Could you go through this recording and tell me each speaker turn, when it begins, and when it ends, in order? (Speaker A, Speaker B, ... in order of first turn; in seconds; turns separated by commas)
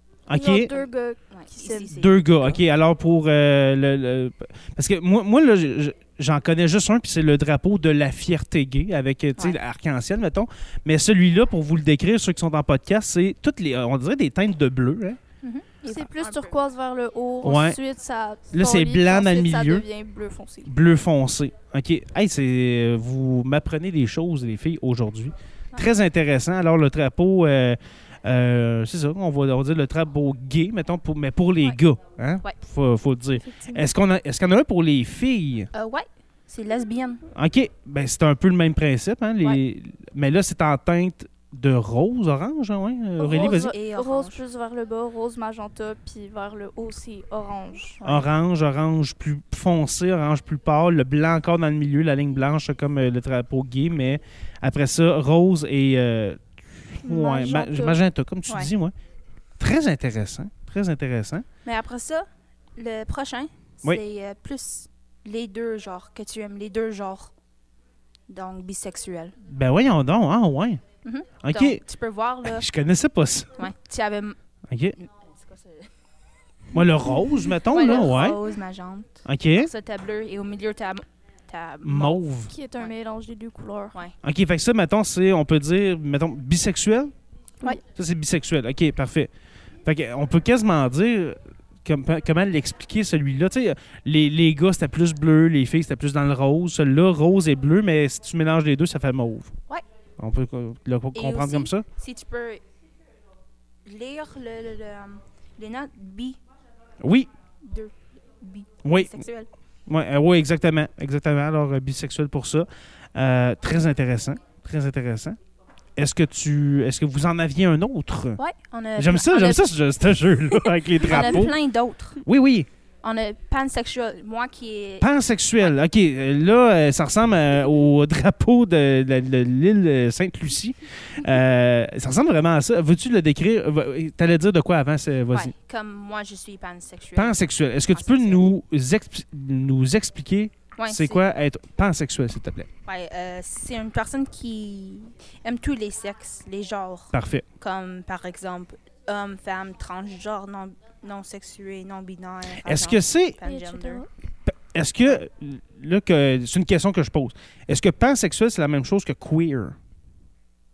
Speaker A: 0.3-0.8, Speaker B: 0.3-1.9, Speaker C: 1.3-2.6, Speaker A: 1.9-15.2, Speaker C: 15.4-16.5, Speaker B: 15.8-20.7, Speaker A: 17.4-17.8, Speaker A: 18.5-19.9, Speaker A: 20.6-35.7, Speaker B: 33.4-33.8, Speaker C: 35.7-37.2, Speaker A: 37.3-43.7, Speaker B: 43.2-48.0, Speaker C: 43.3-44.4, Speaker C: 48.0-48.3, Speaker A: 48.0-58.9, Speaker B: 57.0-58.0, Speaker A: 59.6-61.5, Speaker C: 61.6-67.3, Speaker C: 68.3-69.3, Speaker A: 69.4-70.8, Speaker C: 71.0-72.7, Speaker A: 71.4-71.8, Speaker A: 72.4-73.7, Speaker C: 73.6-74.4, Speaker A: 74.7-74.9, Speaker C: 75.0-75.9, Speaker A: 76.7-78.4, Speaker C: 77.6-82.2, Speaker A: 79.2-79.7, Speaker A: 81.8-82.5, Speaker B: 82.5-84.0, Speaker A: 84.2-87.1, Speaker A: 87.8-89.3, Speaker A: 89.8-99.5, Speaker A: 100.2-101.8, Speaker C: 101.1-102.6, Speaker C: 103.8-106.4, Speaker A: 107.0-107.3, Speaker C: 107.6-109.5, Speaker A: 108.8-109.2, Speaker A: 109.9-115.4, Speaker A: 116.0-118.4, Speaker C: 118.4-119.7, Speaker A: 119.0-121.5, Speaker C: 120.5-122.2, Speaker A: 122.2-122.7, Speaker C: 123.0-125.1, Speaker A: 125.0-135.5, Speaker C: 135.3-138.5, Speaker A: 137.2-142.7, Speaker C: 140.8-141.2, Speaker C: 142.8-154.0, Speaker A: 147.1-147.4, Speaker A: 152.6-153.4, Speaker B: 153.4-154.1, Speaker A: 154.4-159.8